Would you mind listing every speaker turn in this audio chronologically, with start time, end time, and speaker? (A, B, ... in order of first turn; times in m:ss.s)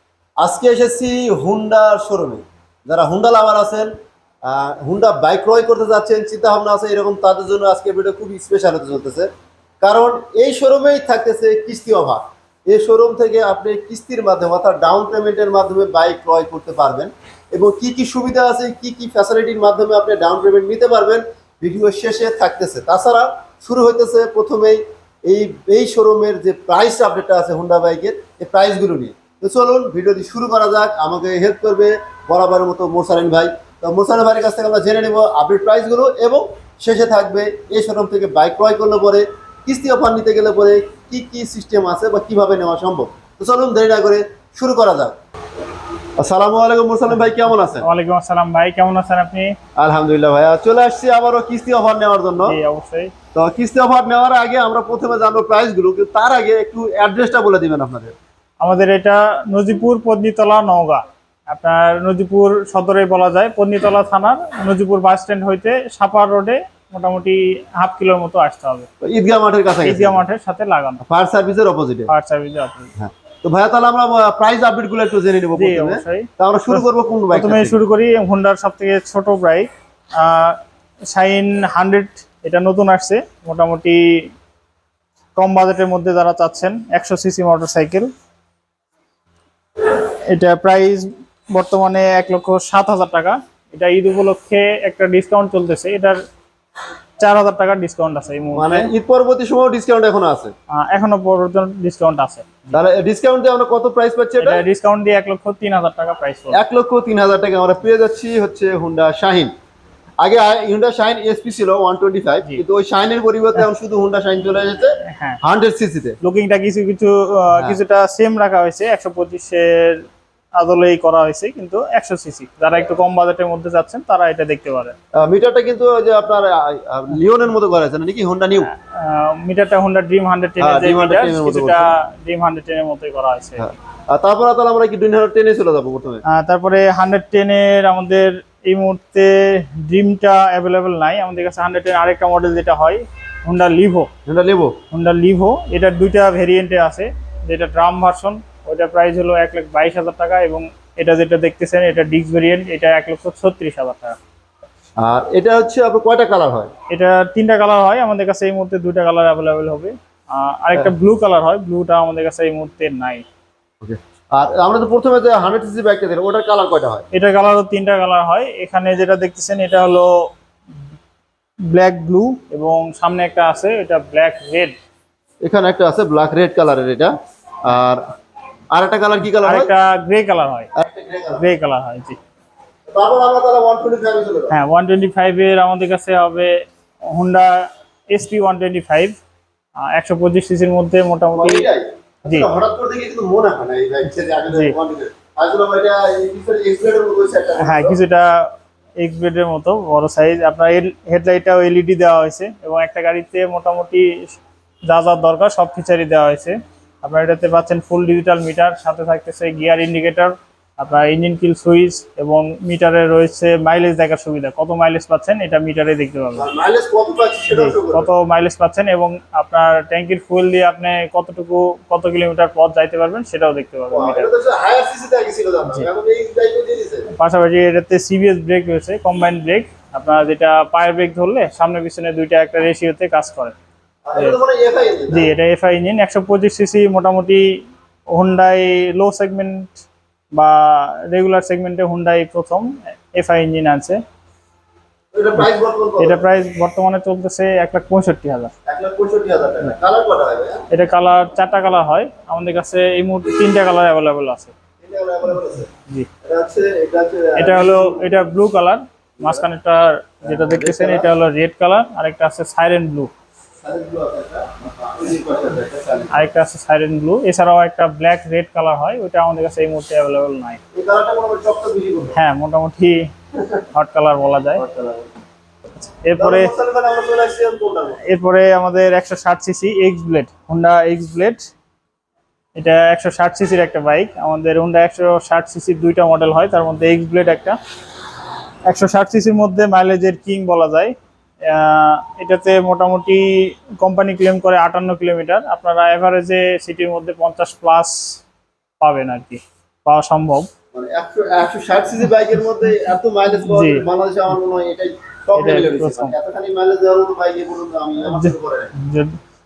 0:00.4-0:03.9 A
0:04.4-0:09.3 A
0:09.8-0:45.2 A
0:46.2-0:47.9 A
0:47.8-0:49.5 B
0:49.8-0:52.6 A
0:52.5-0:53.1 B
0:53.4-0:58.2 A
0:58.6-1:08.9 B
1:09.0-1:10.2 A
1:09.8-1:11.0 B
1:11.0-1:12.1 A
1:12.1-1:12.9 B
1:13.0-1:17.8 A
1:15.6-1:20.6 B
1:21.1-1:24.0 B
1:25.4-1:28.1 B
1:29.8-1:36.2 B
1:37.2-1:38.9 B
1:38.6-1:40.5 A
1:40.7-1:42.7 B
1:42.7-1:44.6 A
1:44.4-1:46.6 B
1:46.5-1:49.5 A
1:50.2-1:56.2 A
1:55.0-1:55.4 B
1:56.2-2:00.0 B
2:00.6-2:05.0 B
2:05.2-2:08.7 A
2:08.6-2:13.6 B
2:10.6-2:11.9 A
2:13.6-2:16.2 A
2:16.3-2:24.1 B
2:24.3-2:24.8 A
2:24.9-2:34.2 B
2:35.0-2:36.7 A
2:36.9-2:43.2 B
2:43.8-2:47.0 A
2:47.1-2:50.1 B
2:51.7-2:54.8 B
2:55.4-2:58.0 A
2:58.7-2:59.7 A
2:59.4-3:00.7 B
3:00.8-3:01.5 A
3:01.4-3:02.2 B
3:02.9-3:04.6 A
3:04.5-3:06.5 B
3:07.1-3:09.2 B
3:09.8-3:11.6 B
3:11.3-3:18.0 A
3:14.5-3:14.8 B
3:17.6-3:36.5 B
3:36.4-3:38.1 A
3:37.5-3:44.3 B
3:43.9-3:47.1 A
3:47.2-3:53.5 B
3:54.1-3:55.3 A
3:55.1-3:57.5 B
3:58.1-3:59.8 B
4:00.4-4:04.0 B
4:05.1-4:06.2 A
4:06.0-4:08.5 B
4:08.7-4:10.6 A
4:10.7-4:14.5 B
4:14.8-4:15.7 A
4:16.3-4:18.1 A
4:17.4-4:23.1 B
4:19.2-4:19.4 A
4:20.2-4:21.1 A
4:23.6-4:26.2 A
4:26.1-4:30.6 B
4:30.7-4:32.2 A
4:32.2-4:33.1 B
4:33.7-4:34.6 B
4:34.6-4:35.1 A
4:35.8-4:36.5 B
4:36.2-4:38.0 A
4:38.1-4:41.5 B
4:42.6-4:47.6 B
4:48.7-4:51.0 B
4:51.5-4:58.2 B
4:58.8-5:00.5 B
5:00.7-5:08.7 A
5:03.4-5:03.8 B
5:05.3-5:06.1 B
5:08.0-5:09.2 B